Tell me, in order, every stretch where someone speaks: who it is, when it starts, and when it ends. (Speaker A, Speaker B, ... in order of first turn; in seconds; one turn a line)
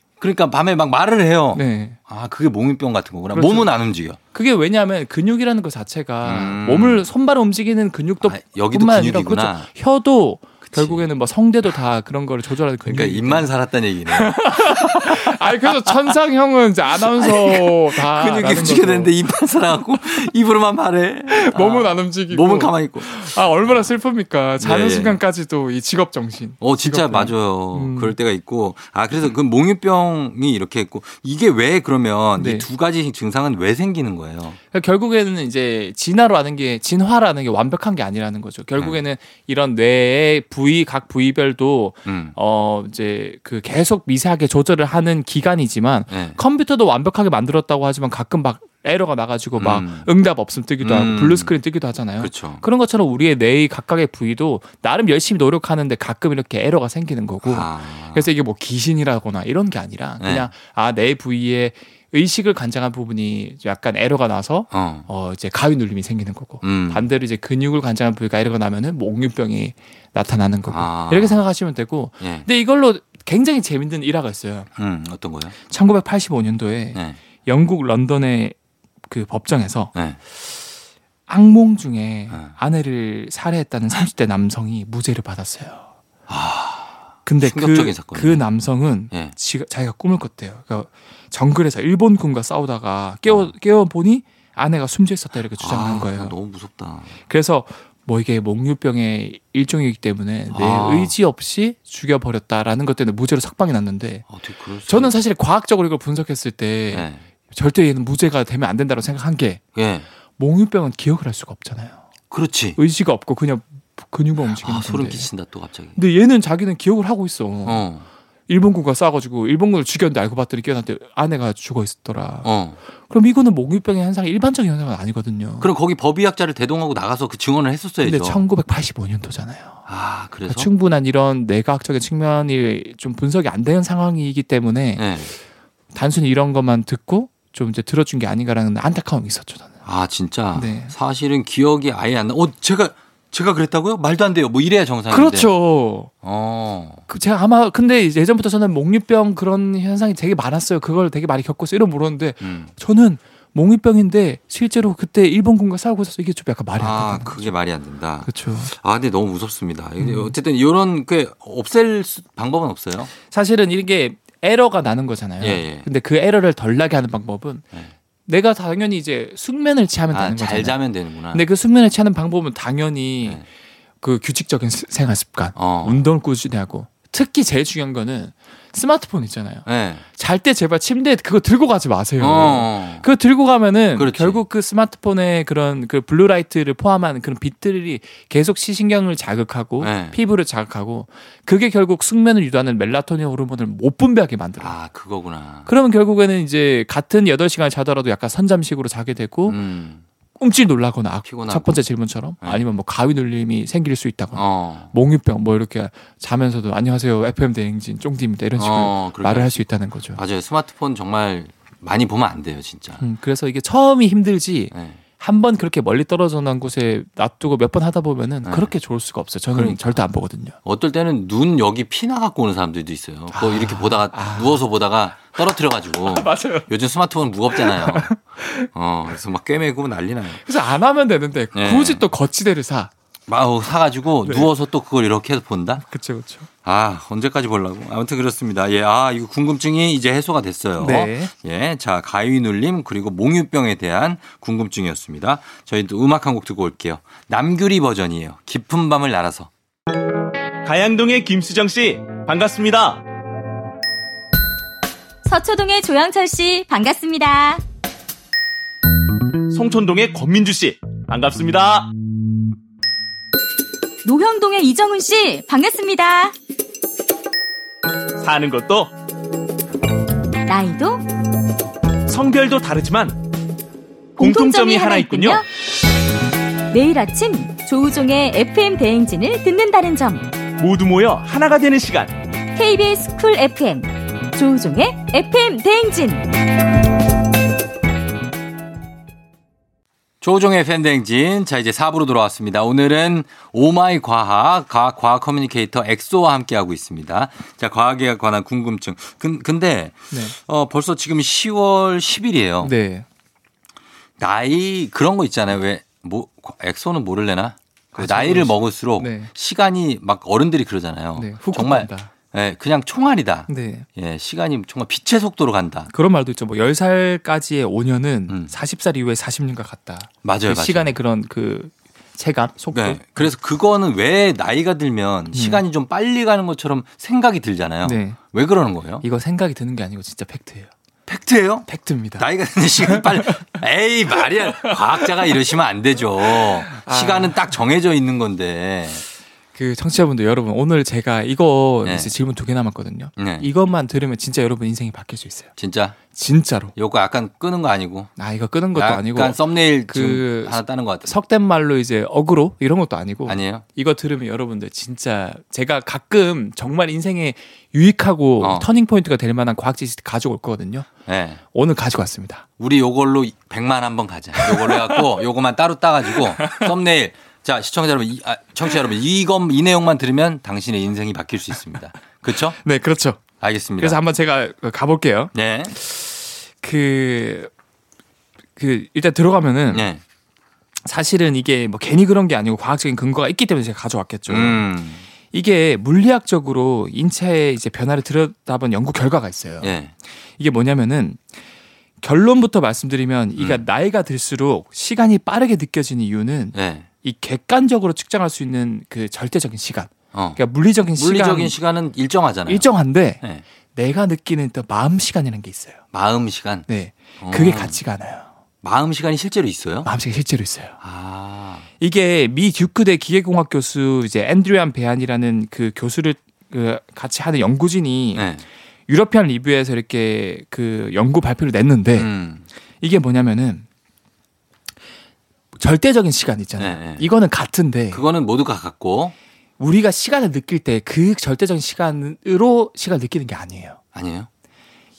Speaker A: 0.2-4.2
Speaker B: 1.5-2.0
Speaker B: 3.3-3.7
Speaker B: 4.3-13.5
Speaker A: 6.2-7.1
Speaker A: 8.2-9.7
Speaker A: 10.6-11.1
Speaker A: 12.9-16.1
Speaker B: 14.1-19.1
Speaker A: 16.9-23.9
Speaker B: 21.3-28.2
Speaker A: 24.6-25.2
Speaker A: 26.6-34.6
Speaker B: 32.4-32.7
Speaker B: 34.7-74.7
Speaker A: 42.1-42.4
Speaker A: 46.1-46.4
Speaker A: 49.6-50.1
Speaker A: 50.8-51.5
Speaker A: 52.2-52.6
Speaker A: 57.4-58.3
Speaker A: 60.2-60.5
Speaker A: 64.7-65.1
Speaker A: 66.6-67.1
Speaker A: 70.7-71.4
Speaker A: 72.2-72.5
Speaker A: 74.8-75.5
Speaker B: 75.7-78.6
Speaker B: 79.1-79.9
Speaker A: 79.9-80.2
Speaker B: 81.3-85.9
Speaker A: 86.3-88.5
Speaker B: 87.3-96.3
Speaker A: 95.6-97.2
Speaker B: 97.3-104.2
Speaker A: 100.5-101.2
Speaker A: 104.3-105.2
Speaker B: 104.9-109.6
Speaker A: 106.9-107.2
Speaker A: 109.8-110.1
Speaker B: 110.4-112.0
Speaker A: 112.3-112.8
Speaker B: 112.8-115.3
Speaker A: 114.4-116.0
Speaker B: 116.0-117.9
Speaker A: 117.7-118.1
Speaker B: 118.5-122.5
Speaker A: 122.4-122.8
Speaker B: 123.1-125.7
Speaker A: 125.6-128.4
Speaker B: 128.0-129.8
Speaker A: 129.9-130.7
Speaker B: 130.5-135.1
Speaker A: 135.0-135.3
Speaker B: 135.9-139.8
Speaker A: 139.8-145.5
Speaker B: 140.5-140.9
Speaker B: 145.1-146.1
Speaker A: 146.2-147.0
Speaker B: 147.1-157.5
Speaker A: 152.4-152.7
Speaker A: 156.8-163.1
Speaker B: 158.2-158.7
Speaker B: 160.0-160.3
Speaker B: 163.3-167.6
Speaker A: 165.4-165.9
Speaker B: 168.3-170.8
Speaker A: 170.1-171.4
Speaker B: 171.3-173.4
Speaker B: 174.0-194.8
Speaker A: 175.6-176.0
Speaker A: 179.7-180.0
Speaker A: 182.2-183.1
Speaker A: 184.0-184.4
Speaker A: 189.8-190.2
Speaker A: 194.6-195.7
Speaker B: 195.7-199.6
Speaker A: 199.5-200.0
Speaker B: 200.4-210.2
Speaker A: 201.2-201.8
Speaker A: 204.3-204.9
Speaker A: 208.6-209.6
Speaker A: 210.2-213.0
Speaker B: 213.0-220.6
Speaker A: 214.7-215.0
Speaker A: 218.4-218.7
Speaker A: 219.5-220.0
Speaker A: 220.7-228.2
Speaker B: 223.3-224.7
Speaker B: 226.0-226.7
Speaker B: 227.5-228.7
Speaker A: 228.7-230.4
Speaker B: 230.4-232.9
Speaker A: 231.5-232.0
Speaker A: 233.3-235.8
Speaker B: 234.2-234.5
Speaker B: 235.8-236.5
Speaker A: 236.6-249.5
Speaker B: 240.8-241.3
Speaker C: 250.6-253.0
Speaker D: 255.2-257.6
Speaker C: 259.5-261.9
Speaker D: 264.0-266.3
Speaker C: 268.2-268.9
Speaker D: 270.5-271.1
Speaker C: 272.1-273.2
Speaker C: 274.2-275.4
Speaker D: 274.2-275.5
Speaker D: 276.7-280.3
Speaker C: 280.6-282.1
Speaker D: 282.6-286.3
Speaker A: 290.2-302.7
Speaker B: 300.1-300.4
Speaker B: 302.6-303.1
Speaker A: 304.2-315.9
Speaker B: 307.9-309.3
Speaker B: 311.1-312.1
Speaker B: 313.5-313.9
Speaker B: 315.9-323.3
Speaker A: 320.2-320.9
Speaker A: 322.7-329.1
Speaker B: 325.3-325.6
Speaker B: 327.8-328.2
Speaker B: 329.0-330.7
Speaker A: 331.1-331.7
Speaker B: 331.7-332.3
Speaker A: 332.2-339.0
Speaker B: 332.8-333.5
Speaker B: 334.5-335.1
Speaker B: 336.3-337.5
Speaker B: 339.5-345.5
Speaker A: 341.8-342.1
Speaker A: 343.2-343.5
Speaker A: 345.6-346.0
Speaker B: 346.1-346.7
Speaker A: 346.8-348.1
Speaker B: 348.2-360.9
Speaker A: 348.8-351.2
Speaker A: 353.3-353.6
Speaker A: 358.4-358.7
Speaker A: 361.1-361.4
Speaker B: 361.5-362.4
Speaker A: 362.6-372.6
Speaker B: 364.4-365.1
Speaker B: 366.4-366.7
Speaker B: 372.6-373.2
Speaker A: 373.4-374.0
Speaker B: 373.8-377.5
Speaker A: 375.3-375.7
Speaker B: 378.6-379.9
Speaker A: 379.7-380.0
Speaker B: 380.9-384.7
Speaker A: 384.3-385.0
Speaker B: 385.3-389.8
Speaker A: 389.6-389.9
Speaker B: 390.4-391.2
Speaker B: 392.0-401.6
Speaker A: 393.4-393.6
Speaker A: 396.5-396.9
Speaker A: 400.1-400.4
Speaker A: 401.0-402.7
Speaker B: 402.5-403.2
Speaker B: 403.8-405.8
Speaker A: 405.9-406.7
Speaker B: 406.7-408.3
Speaker A: 407.2-407.8
Speaker A: 408.6-409.9
Speaker B: 409.8-410.8
Speaker A: 410.8-411.7
Speaker B: 411.8-418.3
Speaker A: 418.1-418.4
Speaker B: 418.9-422.1
Speaker A: 422.0-422.5
Speaker B: 422.8-423.7
Speaker B: 425.6-428.0
Speaker A: 426.6-427.1
Speaker A: 427.9-429.1
Speaker B: 429.6-433.8
Speaker A: 433.9-434.3